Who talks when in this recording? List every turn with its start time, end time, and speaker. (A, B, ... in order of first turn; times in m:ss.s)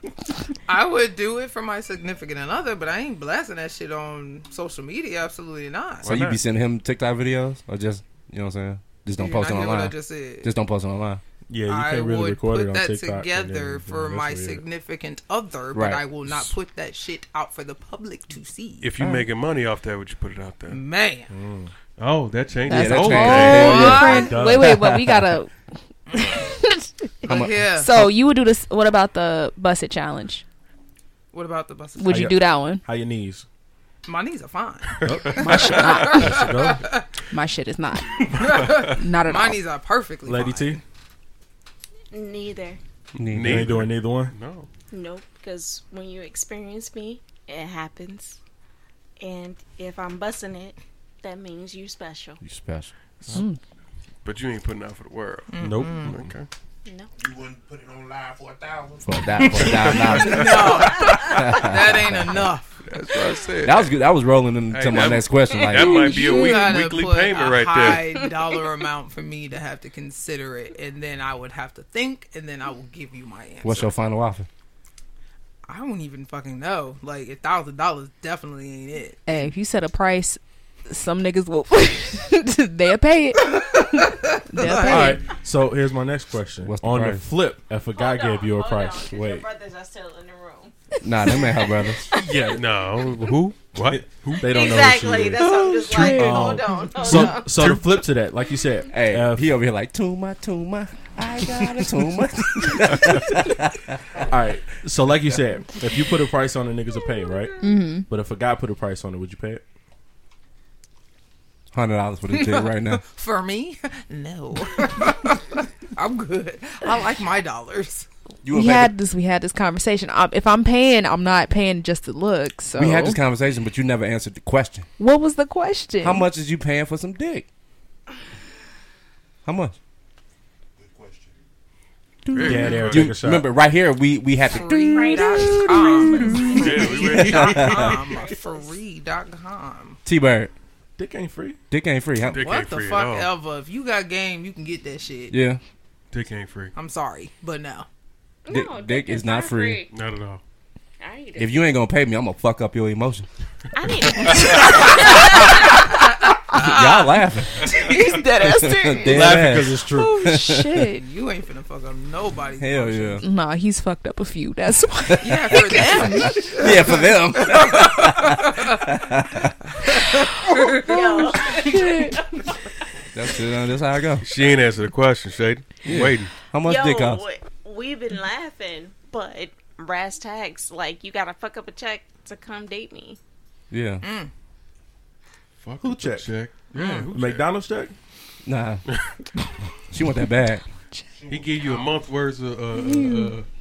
0:00.7-0:06.1 A
0:06.0-0:06.4 B
0:06.0-0:11.2 C
0:09.2-0:10.5 A
0:11.5-0:14.6 D
0:11.7-0:18.9 A
0:15.7-0:16.0 C
0:18.8-0:20.8 B
0:19.0-0:19.2 C
0:20.7-0:21.3 A
0:21.3-0:21.7 D
0:22.0-0:23.9 B
0:22.7-0:26.9 E
0:22.7-0:25.3 C
0:23.5-0:24.4 A
0:24.0-0:24.8 D
0:26.1-0:26.4 A
0:27.3-0:27.9 A
0:27.3-0:28.1 C
0:27.8-0:30.4 E
0:31.3-0:32.3 A
0:32.0-0:32.9 E
0:32.1-0:33.4 D
0:34.0-0:37.0 A
0:35.0-0:36.9 D
0:35.0-0:36.1 B
0:35.3-0:36.6 E
0:37.3-0:38.3 E
0:38.3-0:39.0 B
0:38.3-0:40.8 A
0:38.9-0:39.6 E
0:40.2-0:40.8 D
0:42.1-0:42.8 F
0:43.2-0:44.7 B
0:43.2-0:43.8 C
0:43.4-0:44.3 D
0:44.9-0:48.4 F
0:49.2-0:52.4 F
0:52.4-0:52.9 C
0:53.3-0:53.6 E
0:54.2-0:56.5 B
0:55.5-0:56.2 A
0:55.6-0:56.3 D
0:57.2-0:59.9 G
0:59.0-1:02.5 C
0:59.5-1:01.4 B
1:00.1-1:02.8 A
1:02.8-1:04.0 B
1:03.6-1:06.1 C
1:04.7-1:08.0 B
1:05.7-1:06.6 F
1:05.9-1:13.9 A
1:13.6-1:14.5 C
1:15.7-1:19.4 A
1:19.3-1:25.2 E
1:23.5-1:25.2 A
1:24.8-1:29.5 D
1:26.6-1:27.3 C
1:27.9-1:30.7 F
1:31.0-1:32.1 C
1:32.1-1:32.4 F
1:32.2-1:34.5 B
1:32.2-1:32.6 D
1:33.8-1:39.5 D
1:34.4-1:37.6 F
1:35.4-1:37.4 C
1:38.9-1:44.0 C
1:44.2-1:47.6 D
1:47.6-1:48.1 E
1:48.1-1:49.6 D
1:51.7-1:53.0 C
1:52.3-1:58.1 A
1:58.4-1:58.9 C
1:58.5-2:03.2 E
2:02.8-2:04.9 C
2:05.0-2:06.3 E
2:06.0-2:07.5 C
2:09.4-2:09.8 C
2:10.8-2:11.4 G
2:12.2-2:18.0 C
2:12.3-2:13.2 B
2:12.4-2:13.5 D
2:14.5-2:20.0 A
2:14.9-2:18.7 F
2:16.5-2:17.8 B
2:20.0-2:20.5 C
2:21.0-2:21.6 D
2:21.7-2:22.4 C
2:22.3-2:23.3 B
2:22.4-2:25.3 A
2:25.3-2:25.6 C
2:26.1-2:26.7 B
2:26.7-2:27.9 A
2:28.5-2:29.9 F
2:28.5-2:29.8 C
2:29.9-2:30.4 B
2:31.0-2:31.7 F
2:31.4-2:33.3 C
2:33.7-2:36.0 F
2:34.1-2:34.6 B
2:34.5-2:35.6 A
2:36.5-2:37.0 A
2:36.5-2:40.9 C
2:37.7-2:39.2 F
2:39.0-2:40.3 D
2:39.9-2:41.0 E
2:40.9-2:43.2 A
2:42.6-2:43.2 C
2:43.2-2:46.6 E
2:45.1-2:49.6 C
2:45.2-2:48.8 A
2:49.9-2:51.6 A
2:50.7-2:52.7 F
2:51.5-2:52.2 E
2:53.1-2:54.3 C
2:54.2-2:56.3 B
2:55.8-2:57.2 C
2:56.6-3:03.2 F
3:03.7-3:04.0 C
3:04.0-3:04.3 A
3:05.6-3:07.5 B
3:05.8-3:06.3 D
3:06.7-3:07.1 A
3:07.1-3:07.9 D
3:08.4-3:08.8 C
3:09.9-3:10.6 C
3:11.1-3:12.0 G
3:11.3-3:13.5 B
3:12.8-3:13.4 E